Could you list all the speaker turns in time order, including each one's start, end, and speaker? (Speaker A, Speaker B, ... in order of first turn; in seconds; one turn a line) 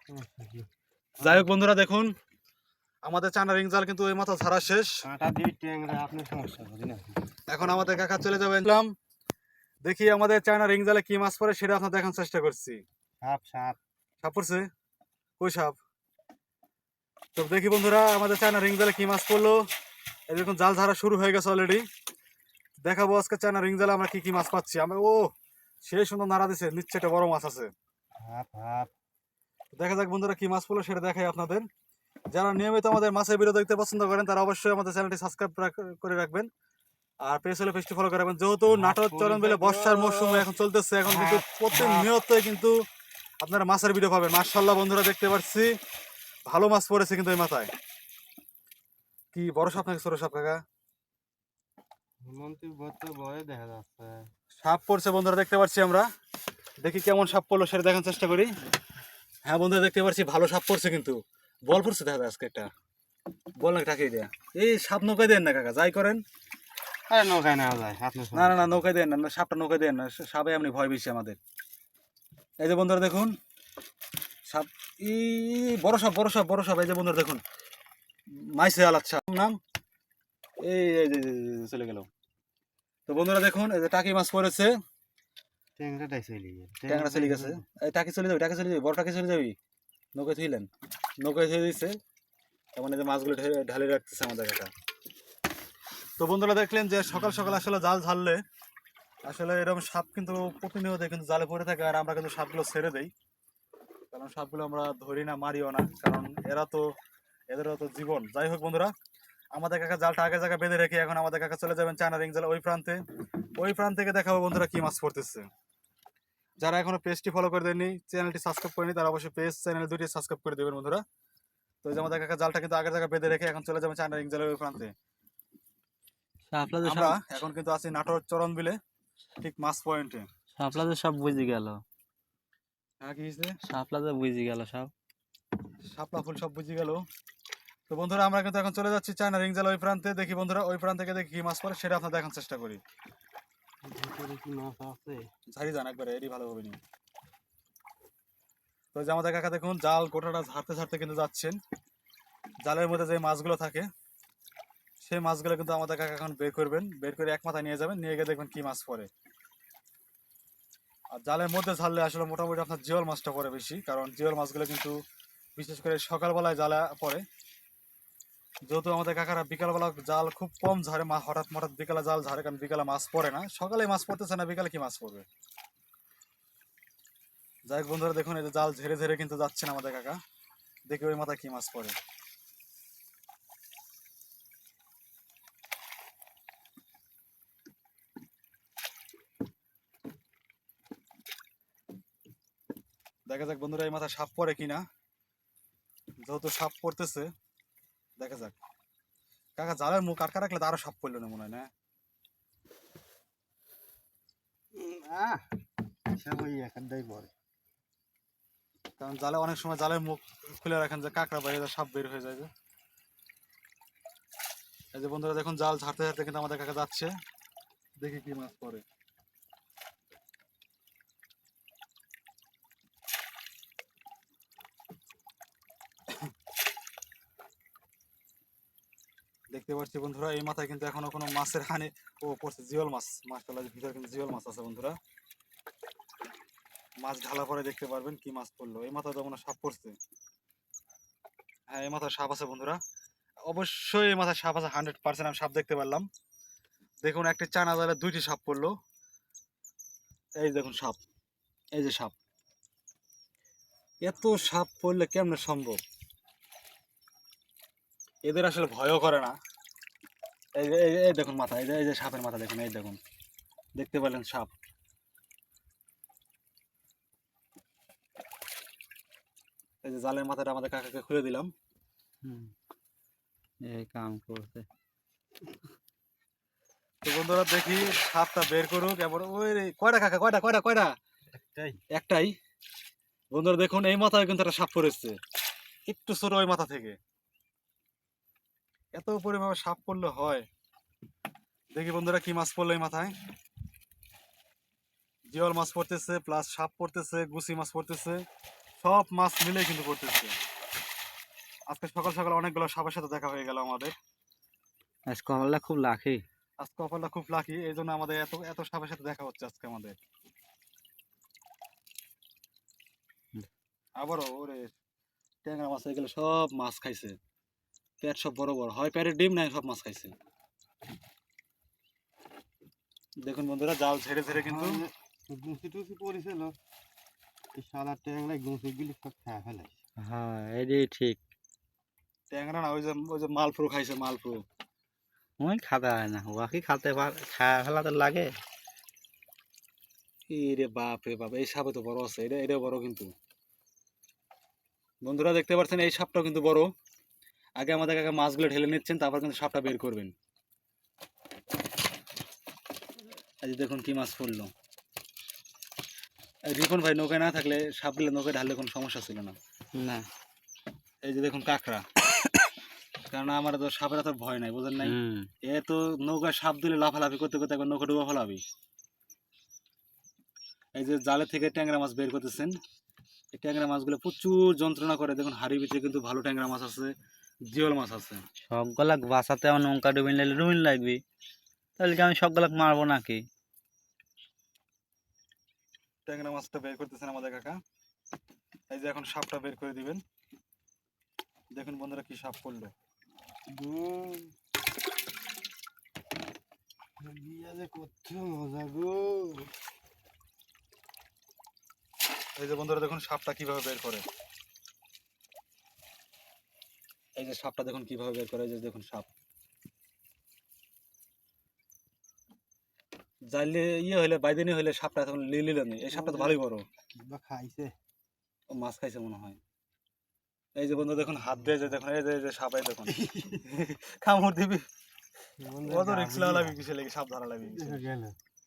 Speaker A: 0.1-0.7
Speaker B: 1.2-2.1
Speaker B: 3.0-5.0
Speaker A: 5.0-7.2
Speaker B: 7.5-8.9
Speaker B: 9.8-12.8
Speaker A: 13.2-13.8
Speaker B: 14.2-14.7
Speaker B: 15.4-15.7
Speaker B: 17.4-19.7
Speaker B: 20.3-21.8
Speaker B: 22.8-25.3
Speaker B: 25.8-27.7
Speaker A: 28.2-28.9
Speaker B: 29.7-31.6
Speaker B: 32.3-36.5
Speaker B: 37.2-42.7
Speaker A: 38.7-40.5
Speaker A: 41.1-42.1
Speaker B: 43.4-45.7
Speaker B: 46.5-47.7
Speaker B: 49.3-50.6
Speaker A: 52.2-54.2
Speaker B: 54.6-56.1
Speaker B: 56.8-58.5
Speaker B: 59.5-62.7
Speaker B: 63.6-66.2
Speaker A: 67.1-68.8
Speaker B: 68.3-71.4
Speaker B: 72.6-73.3
Speaker B: 74.5-77.4
Speaker B: 78.3-79.5
Speaker B: 80.6-82.1
Speaker B: 83.1-84.7
Speaker A: 85.8-87.6
Speaker B: 86.9-89.5
Speaker B: 90.1-90.7
Speaker B: 91.2-92.0
Speaker B: 92.8-94.7
Speaker B: 96.2-98.4
Speaker B: 99.2-103.1
Speaker B: 104.1-106.8
Speaker B: 107.5-108.9
Speaker B: 109.5-113.0
Speaker B: 113.6-115.5
Speaker B: 116.6-121.0
Speaker B: 121.8-124.9
Speaker C: 126.5-127.2
Speaker B: 126.8-128.8
Speaker B: 129.4-130.3
Speaker C: 130.5-131.8
Speaker B: 133.0-133.5
Speaker C: 133.7-134.9
Speaker B: 135.9-137.0
Speaker B: 137.9-142.8
Speaker A: 143.8-145.2
Speaker B: 145.5-146.8
Speaker B: 148.9-151.6
Speaker B: 152.6-153.9
Speaker B: 155.0-159.1
Speaker B: 161.1-165.0
Speaker B: 165.6-167.2
Speaker B: 168.7-175.2
Speaker B: 177.7-180.2
Speaker B: 180.9-181.9
Speaker B: 193.3-194.8
Speaker B: 196.2-197.3
Speaker B: 198.2-198.5
Speaker B: 199.6-201.7
Speaker A: 204.7-205.6
Speaker A: 206.1-207.3
Speaker B: 209.0-212.5
Speaker B: 214.9-217.1
Speaker B: 218.0-218.8
Speaker B: 229.5-234.9
Speaker B: 237.0-240.0
Speaker B: 241.7-242.8
Speaker B: 243.5-246.1
Speaker B: 247.0-248.7
Speaker B: 250.4-251.0
Speaker B: 251.8-252.1
Speaker B: 254.0-255.8
Speaker B: 258.2-259.4
Speaker B: 260.6-263.0
Speaker B: 263.8-264.5
Speaker B: 269.8-271.5
Speaker C: 272.2-272.5
Speaker C: 273.6-274.6
Speaker B: 277.0-280.9
Speaker A: 281.5-281.8
Speaker B: 281.9-282.3
Speaker B: 283.3-285.2
Speaker B: 285.9-287.0
Speaker B: 288.9-290.4
Speaker B: 291.7-293.1
Speaker B: 295.3-298.2
Speaker B: 298.8-300.3
Speaker B: 301.7-303.9
Speaker C: 305.1-306.2
Speaker B: 306.6-310.0
Speaker B: 314.0-314.7
Speaker B: 315.4-317.1
Speaker B: 318.0-320.1
Speaker B: 323.2-324.8
Speaker A: 324.3-326.5
Speaker A: 327.5-329.7
Speaker C: 330.0-331.2
Speaker B: 332.3-334.4
Speaker C: 335.4-338.3
Speaker B: 340.3-343.1
Speaker B: 345.0-346.7
Speaker B: 347.6-350.1
Speaker B: 353.4-354.5
Speaker B: 356.5-359.4
Speaker C: 359.7-360.1
Speaker B: 361.0-361.8
Speaker B: 363.1-368.4
Speaker C: 364.8-365.3
Speaker B: 370.8-372.5
Speaker B: 373.3-376.9
Speaker B: 377.5-378.2
Speaker C: 378.5-381.0
Speaker C: 381.8-383.2
Speaker B: 386.1-387.6
Speaker B: 388.7-390.0
Speaker B: 391.5-392.7
Speaker A: 393.5-394.3
Speaker A: 397.0-399.5
Speaker B: 402.4-404.0
Speaker B: 407.2-409.1
Speaker B: 413.3-416.6
Speaker A: 415.9-416.4
Speaker A: 417.0-417.7
Speaker B: 418.6-419.4
Speaker B: 420.6-424.6
Speaker A: 423.0-423.4
Speaker A: 425.4-426.6
Speaker B: 425.6-427.8
Speaker A: 427.4-428.1